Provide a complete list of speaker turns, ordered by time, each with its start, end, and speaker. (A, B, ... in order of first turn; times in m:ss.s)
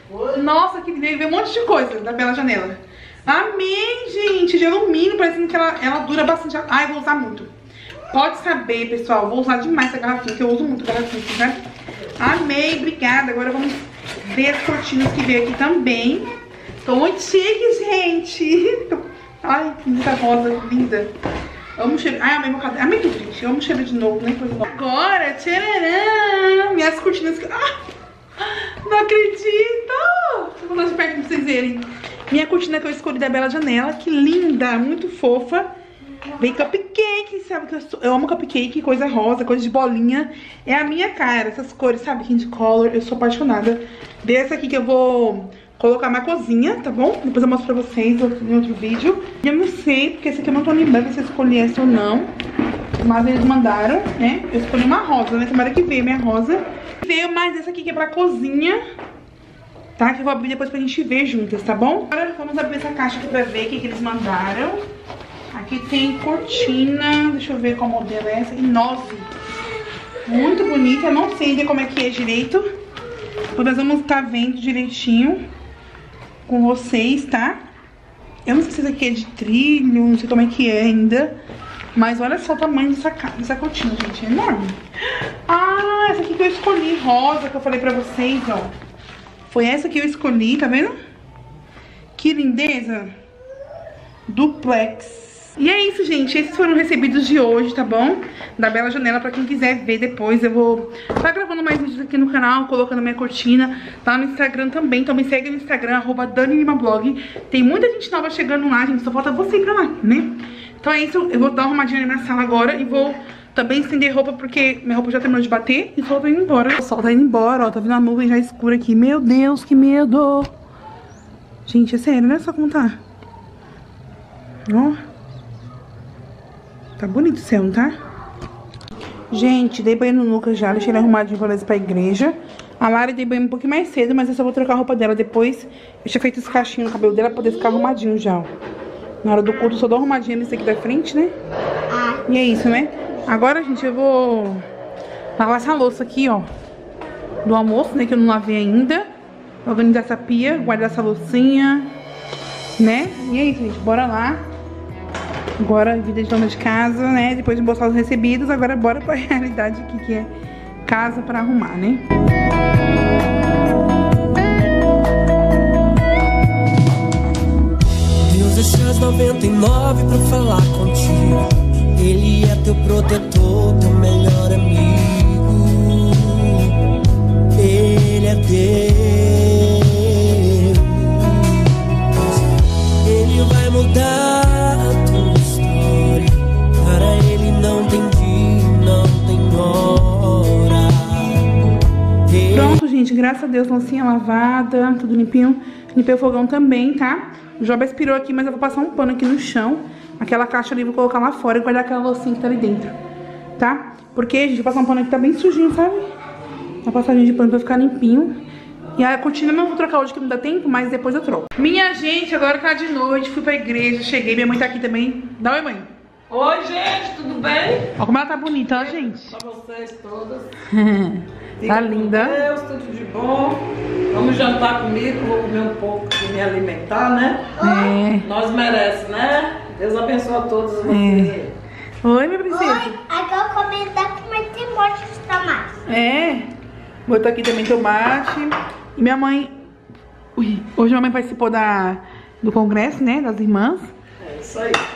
0:00.2-0:07.5 A
0:08.1-0:11.6 A
0:12.2-0:16.3 A
0:16.8-0:21.1 A
0:21.8-0:27.8 A
0:28.4-0:35.7 A
0:36.4-0:52.3 A
0:53.0-0:58.8 A
1:00.0-1:04.8 A
1:05.5-1:09.3 A
1:10.3-1:12.7 A
1:13.6-1:15.4 A
1:16.5-1:17.6 A
1:18.5-1:21.4 A
1:22.0-1:24.8 A
1:25.5-1:28.7 A
1:29.5-1:30.9 A
1:32.2-1:33.2 A
1:34.3-2:00.5 A
2:01.7-2:03.0 A
2:04.7-2:05.0 A
2:07.0-2:08.0 A
2:09.3-2:18.5 A
2:19.2-2:21.3 A
2:21.9-2:22.3 B
2:22.3-2:24.6 A
2:25.4-2:26.5 A
2:27.4-2:29.1 A
2:29.6-2:31.9 A
2:32.8-2:34.4 A
2:35.6-2:40.3 A
2:40.9-2:42.1 A
2:48.3-2:56.8 C
2:57.6-3:01.8 C
3:03.0-3:11.5 C
3:12.3-3:12.8 C
3:12.5-3:23.0 A
3:23.6-3:26.1 A
3:26.8-3:28.4 A
3:29.0-3:35.9 A
3:36.3-3:37.9 D
3:38.0-3:39.4 A
3:38.7-3:40.5 D
3:40.7-3:42.4 A
3:41.6-3:47.5 D
3:47.6-3:47.9 B
3:47.6-3:48.3 A
3:48.2-3:51.6 D
3:50.9-3:51.4 A
3:52.0-3:53.0 A
3:52.5-3:55.7 B
3:55.9-3:56.5 A
3:57.1-3:59.6 A
4:00.4-4:03.9 A
4:04.2-4:04.8 D